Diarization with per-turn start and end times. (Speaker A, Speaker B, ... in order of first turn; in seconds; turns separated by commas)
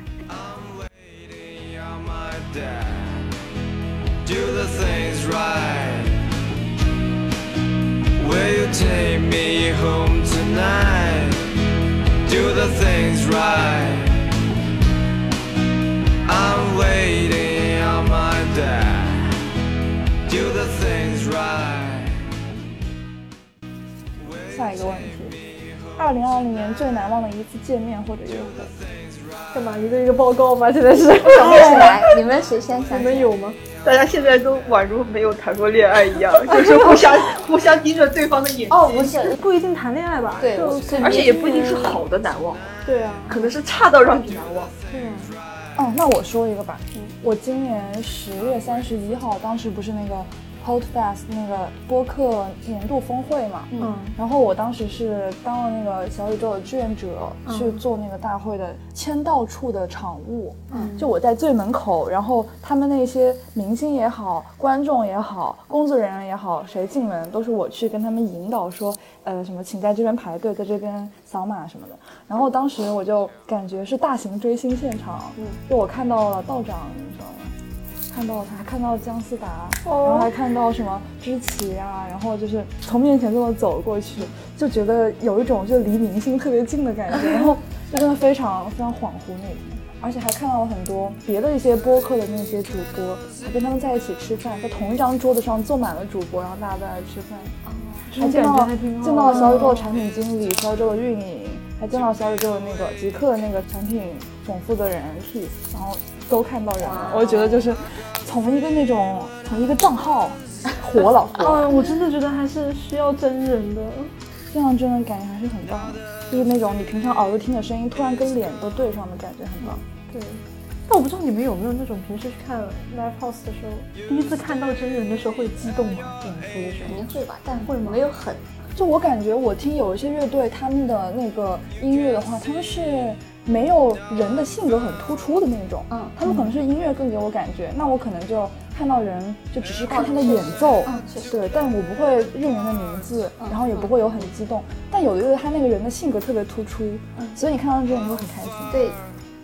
Speaker A: 0.3-3.4, Speaker A: 4.2-6.2, Speaker A: 8.2-11.6, Speaker A: 12.2-14.3, Speaker A: 16.2-19.4, Speaker A: 20.3-22.4, Speaker A: 24.2-26.0, Speaker B: 24.5-25.4, Speaker B: 26.0-28.7, Speaker A: 28.7-29.5, Speaker C: 29.5-32.2, Speaker D: 31.2-33.3, Speaker C: 32.9-33.6, Speaker E: 33.8-39.1, Speaker C: 36.5-37.3, Speaker D: 38.7-39.4, Speaker C: 38.9-42.0, Speaker D: 40.4-41.4, Speaker E: 41.0-42.7, Speaker C: 42.9-43.5, Speaker E: 43.3-44.7, Speaker C: 44.9-45.4, Speaker B: 45.8-77.5, Speaker C: 53.8-54.2, Speaker C: 57.5-57.8, Speaker D: 60.7-61.1, Speaker B: 78.1-97.6, Speaker C: 79.9-80.1, Speaker D: 97.7-98.1, Speaker B: 98.1-111.8, Speaker C: 98.1-99.9, Speaker D: 106.8-107.7, Speaker C: 111.4-114.1, Speaker B: 114.5-119.8, Speaker C: 120.1-127.1, Speaker D: 126.8-128.7, Speaker C: 127.7-128.0, Speaker B: 128.8-148.7, Speaker D: 135.9-136.2, Speaker D: 139.9-141.4, Speaker D: 143.4-144.0, Speaker D: 148.7-149.0